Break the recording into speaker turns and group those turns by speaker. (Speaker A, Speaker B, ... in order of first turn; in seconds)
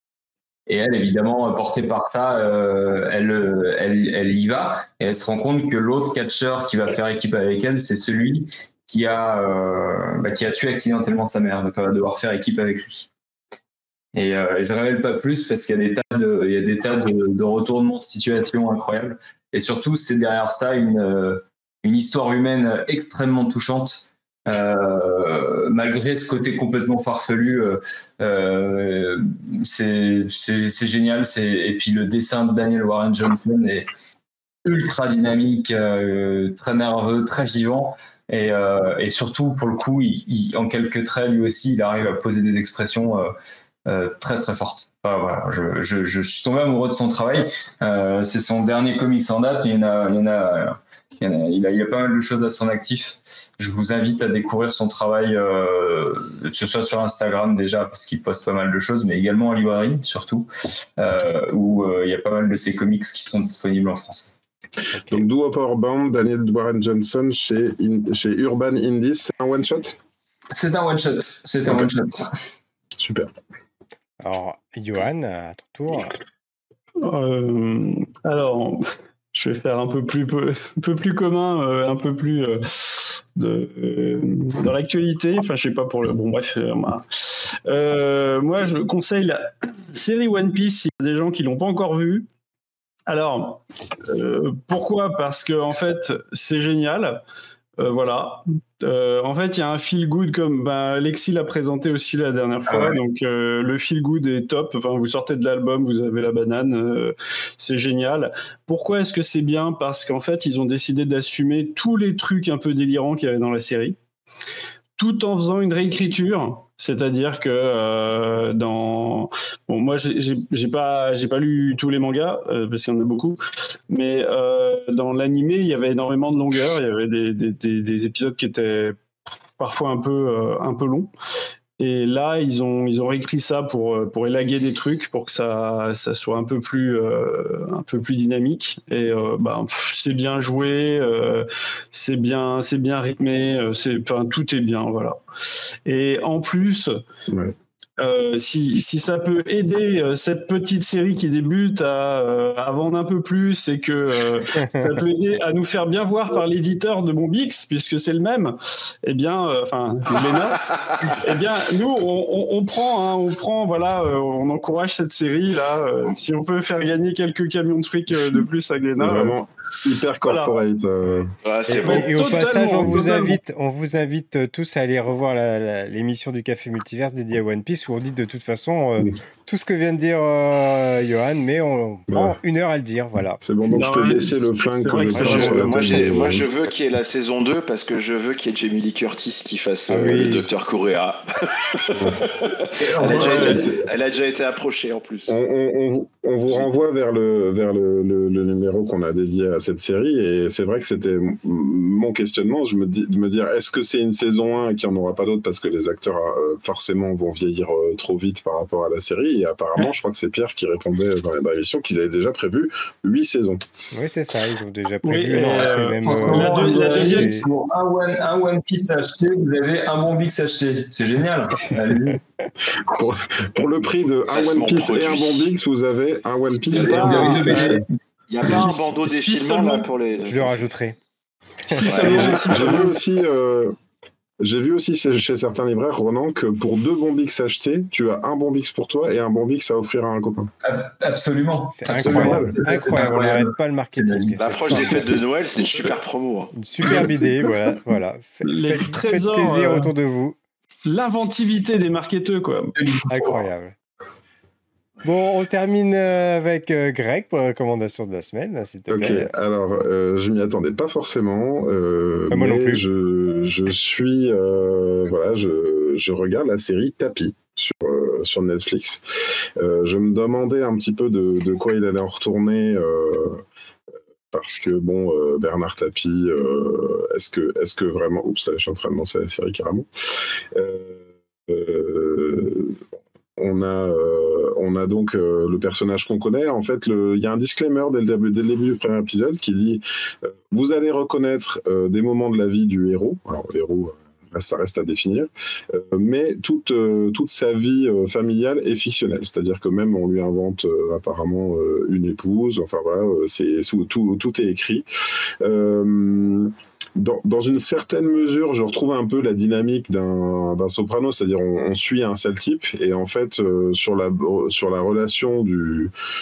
Speaker A: 0.7-13.1, 14.1-33.9, 34.6-43.3, 43.9-64.3, 70.5-72.3, 102.7-103.0, 192.7-193.8, 215.5-222.2, 226.7-227.9, 240.6-245.0, 252.8-253.4
Speaker B: 64.9-65.2, 74.2-76.2, 171.7-183.4, 189.9-190.5, 213.9-217.4, 230.2-230.9, 231.7-232.2, 241.8-245.1, 246.5-250.4, 253.1-253.7, 255.0-259.3, 262.3-262.8
Speaker C: 65.1-70.0, 71.6-71.9, 73.0-73.3, 169.0-171.3, 182.1-182.4, 183.4-186.5, 191.9-192.2, 193.4-193.8, 195.3-213.7, 222.7-227.8, 232.1-233.8, 234.4-240.5, 242.0-242.5, 258.9-269.0, 269.6-273.4, 274.3-279.9, 280.5-282.9, 283.4-304.9, 305.4-315.9
Speaker D: 77.0-92.3, 93.1-97.2, 97.8-114.0, 115.0-129.0, 129.6-131.1, 131.8-145.2, 145.8-147.0, 148.0-169.4, 170.2-170.6, 171.8-173.4, 183.7-186.0, 193.1-193.7, 215.0-217.5, 227.5-227.8, 228.4-229.9, 231.6-233.0, 246.8-247.5, 248.4-249.9, 250.8-252.7
Speaker E: 171.4-172.4, 185.1-195.3, 224.3-225.5, 226.7-227.7, 228.3-230.7, 231.8-232.4, 244.4-246.5